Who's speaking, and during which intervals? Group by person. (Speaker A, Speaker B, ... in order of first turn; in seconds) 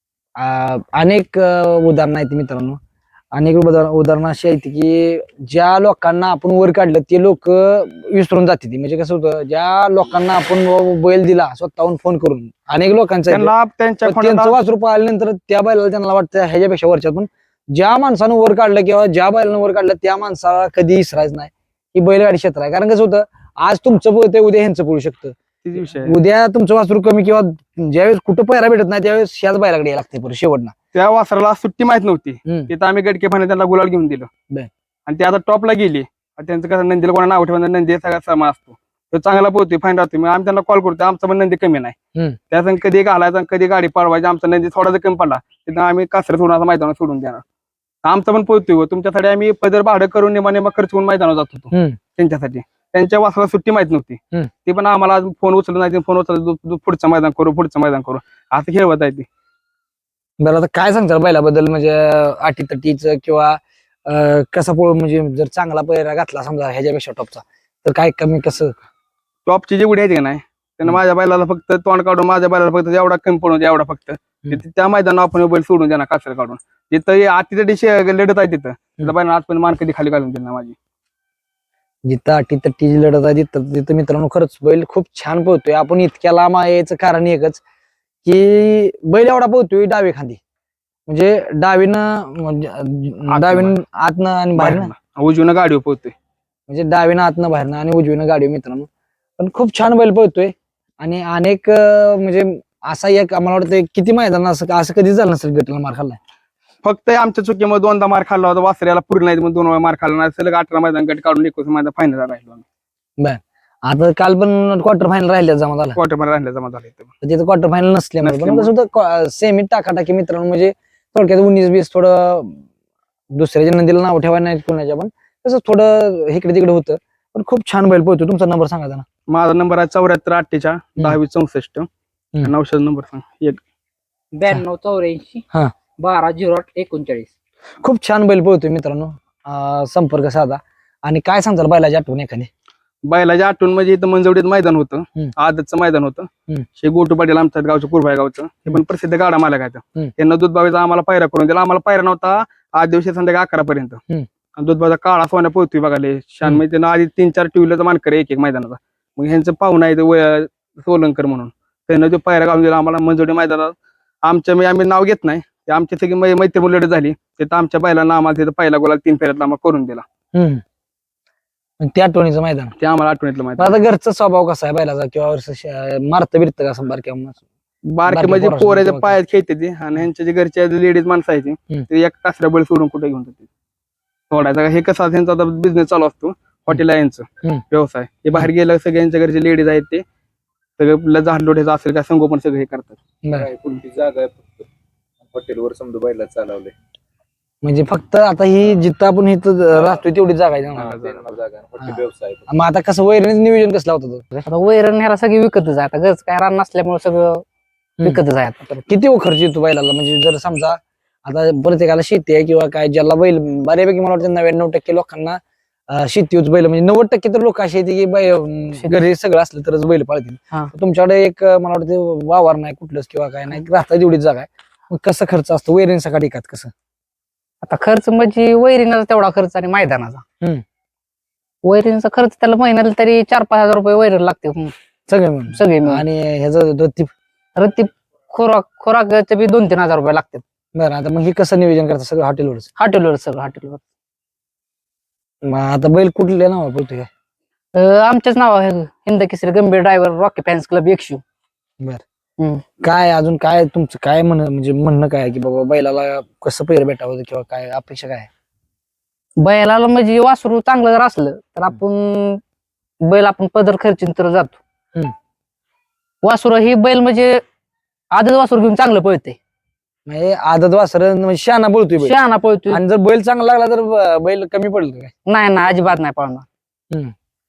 Speaker A: 0.4-2.8, 3.3-13.5, 14.0-25.3, 26.0-30.7, 32.5-32.7, 51.7-52.0, 60.4-68.8, 82.1-87.6, 88.2-90.4, 91.1-94.9, 96.7-98.9, 99.4-106.2, 113.2-116.0, 117.2-122.6, 123.3-129.0, 137.8-142.5, 170.3-170.6, 171.8-172.7, 173.6-177.4, 178.1-179.2, 193.2-193.5, 197.6-200.9, 201.8-204.5, 208.0-226.7, 235.1-237.1, 240.7-242.7, 245.4-247.1, 252.8-258.3, 270.1-275.1
Speaker B: 13.3-14.6, 25.6-26.1, 30.9-34.3, 35.1-42.0, 42.5-47.4, 48.0-59.3, 69.5-80.8, 93.3-93.7, 94.5-96.1, 106.8-112.6, 116.0-117.1, 118.2-118.7, 129.3-131.9, 132.4-133.6, 143.1-154.0, 154.6-170.0, 172.8-173.8, 177.9-183.5, 184.3-190.0, 190.8-193.0, 200.8-201.3
Speaker C: 134.3-135.4, 136.0-137.3, 204.5-207.4, 208.0-208.8, 227.6-230.2, 231.6-234.7, 235.5-236.0, 237.6-240.4, 242.8-243.8, 247.7-251.2, 252.4-252.6, 259.4-262.4, 263.0-264.6, 266.2-267.4, 268.1-269.4, 272.0-272.8, 275.2-276.4
Speaker D: 193.3-194.7, 195.3-196.7, 200.8-202.4